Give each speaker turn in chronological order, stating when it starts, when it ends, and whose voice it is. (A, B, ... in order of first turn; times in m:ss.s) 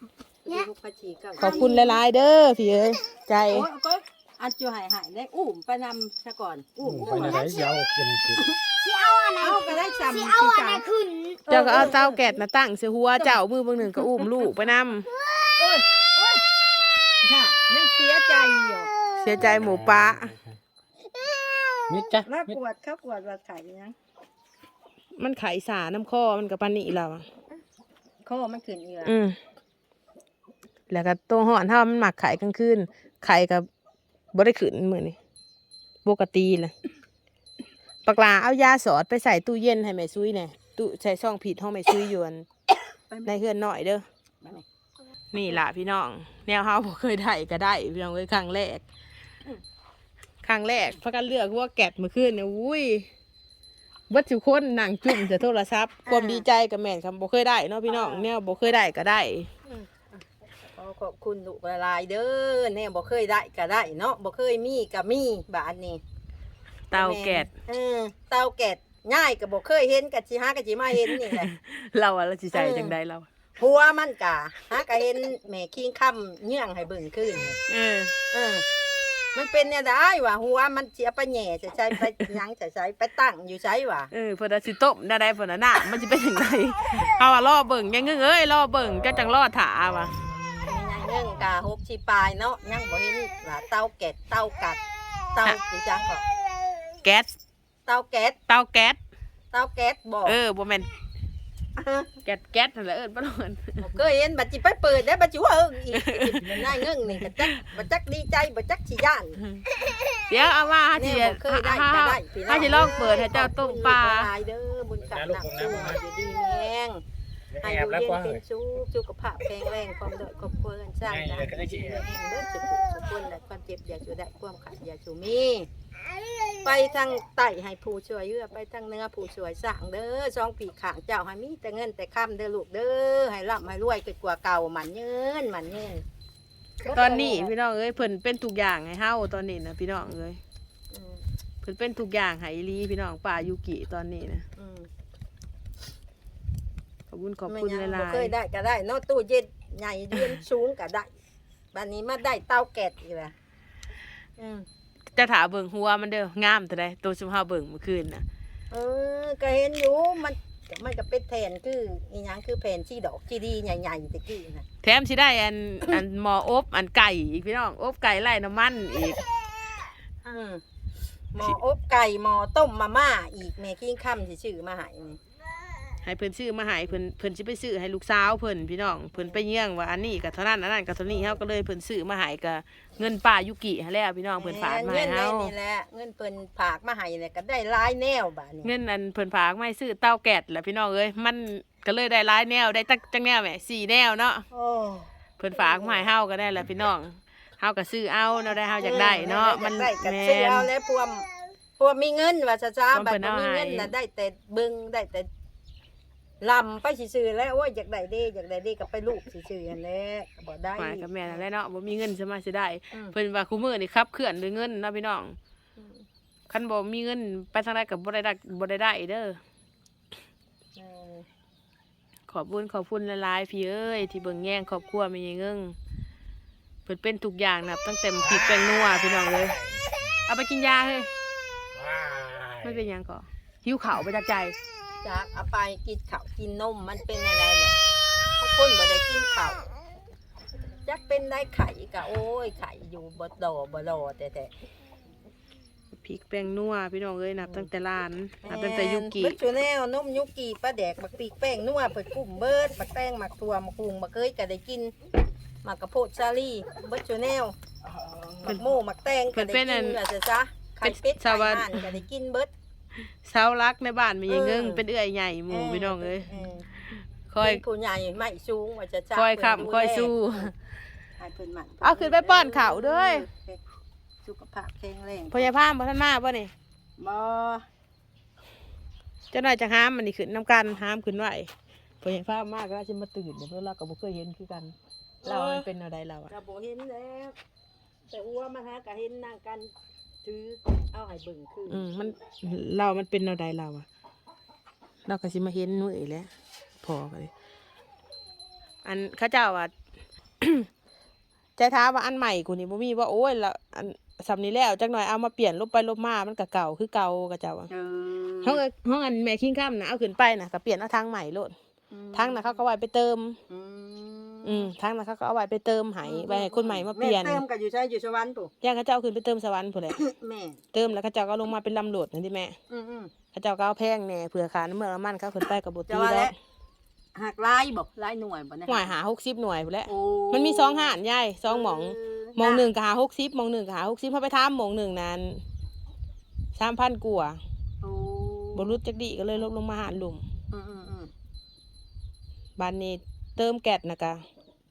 0:00.4-0:02.0 A
0:01.4-0:03.7 B
0:01.4-0:01.7 C
0:03.5-0:07.4 A
0:07.0-0:07.8 C
0:07.0-0:08.4 D
0:08.7-0:11.5 C
0:09.4-0:10.8 A
0:11.5-0:12.4 A
0:11.5-0:15.1 B
0:13.2-0:14.5 A
0:15.5-0:16.4 A
0:17.2-0:18.9 A
0:19.1-0:20.4 B
0:19.6-0:20.0 D
0:21.1-0:22.1 C
0:21.9-0:22.2 D
0:22.2-0:24.0 A
0:25.2-0:27.2 B
0:28.2-0:29.1 A
0:29.0-0:29.4 B
0:30.9-0:33.7 B
0:34.3-0:35.2 B
0:36.0-0:36.7 B
0:38.0-0:42.4 B
0:43.2-0:44.0 B
0:45.3-0:48.8 B
0:50.4-0:53.1 B
0:54.1-0:59.5 B
0:56.0-0:56.4 A
0:57.9-0:58.3 A
0:59.7-1:00.0 A
1:00.8-1:06.0 A
1:06.9-1:07.5 B
1:06.9-1:11.5 A
1:11.2-1:13.3 B
1:12.5-1:12.9 A
1:13.6-1:17.6 A
1:17.7-1:18.1 B
1:18.3-1:18.6 A
1:19.3-1:24.1 A
1:24.1-1:30.2 B
1:30.6-1:34.8 A
1:35.3-1:36.2 A
1:37.0-1:37.3 B
1:37.9-1:38.4 A
1:38.5-1:39.0 B
1:39.5-1:40.4 A
1:40.2-1:40.9 B
1:41.8-1:42.1 A
1:42.2-1:43.9 B
1:43.8-1:49.4 A
1:45.9-1:46.7 B
1:50.3-1:54.3 B
1:51.0-1:57.0 A
1:55.2-1:55.8 D
1:57.6-1:58.4 D
1:57.6-2:05.7 A
2:01.1-2:02.0 D
2:06.5-2:16.0 A
2:16.8-2:17.5 A
2:16.9-2:20.4 B
2:20.9-2:21.2 A
2:21.6-2:24.4 B
2:24.6-2:24.9 A
2:27.1-2:28.3 B
2:27.5-2:31.1 A
2:31.7-2:33.3 A
2:34.4-2:34.6 A
2:35.2-2:38.2 B
2:38.7-2:44.6 A
2:44.8-2:49.2 B
2:50.2-2:50.6 A
2:51.3-2:55.2 A
2:56.0-3:05.5 B
3:04.4-3:08.7 A
3:08.6-3:14.5 B
3:14.5-3:16.0 A
3:15.4-3:20.7 B
3:18.8-3:21.3 A
3:21.8-3:25.3 A
3:22.9-3:23.9 B
3:26.4-3:31.4 A
3:30.8-3:35.4 B
3:35.8-3:36.0 A
3:36.5-3:39.4 B
3:40.8-3:41.3 A
3:42.3-3:45.8 B
3:46.8-3:49.6 B
3:50.3-3:51.1 B
3:51.8-3:52.6 D
3:52.6-3:54.6 B
3:55.0-3:57.8 A
3:58.4-3:59.6 A
4:00.8-4:04.5 A
4:05.9-4:09.4 B
4:08.4-4:14.9 A
4:15.6-4:17.6 A
4:18.2-4:18.7 B
4:18.3-4:22.5 A
4:19.3-4:20.0 B
4:20.8-4:21.8 B
4:23.2-4:26.3 B
4:24.3-4:24.8 A
4:25.5-4:26.6 A
4:27.3-4:27.6 B
4:27.4-4:30.5 A
4:29.1-4:30.5 B
4:31.2-4:33.6 A
4:31.8-4:33.3 B
4:34.2-4:35.5 A
4:35.3-4:36.5 B
4:37.0-4:37.6 A
4:39.3-4:41.5 B
4:42.0-4:46.3 B
4:45.2-4:45.6 A
4:46.3-4:47.4 A
4:48.1-4:49.7 A
4:50.2-4:52.0 A
4:51.7-4:53.8 B
4:55.1-4:56.3 B
4:56.8-4:57.3 B
4:58.8-4:59.7 B
5:00.4-5:00.7 B
5:01.6-5:07.7 B
5:07.7-5:08.6 A
5:08.4-5:11.5 B
5:11.9-5:12.6 A
5:12.1-5:13.4 B
5:13.5-5:14.7 A
5:14.4-5:17.4 B
5:16.0-5:18.5 A
5:18.6-5:20.0 B
5:19.9-5:20.6 A
5:20.7-5:22.5 B
5:22.7-5:23.1 A
5:23.3-5:26.3 B
5:25.9-5:26.3 A
5:27.2-5:28.9 A
5:28.7-5:35.4 B
5:29.9-5:31.0 A
5:31.5-5:32.7 A
5:36.6-5:37.4 B
5:37.8-5:38.8 A
5:38.5-5:40.2 B
5:40.5-5:41.1 A
5:42.6-5:44.2 B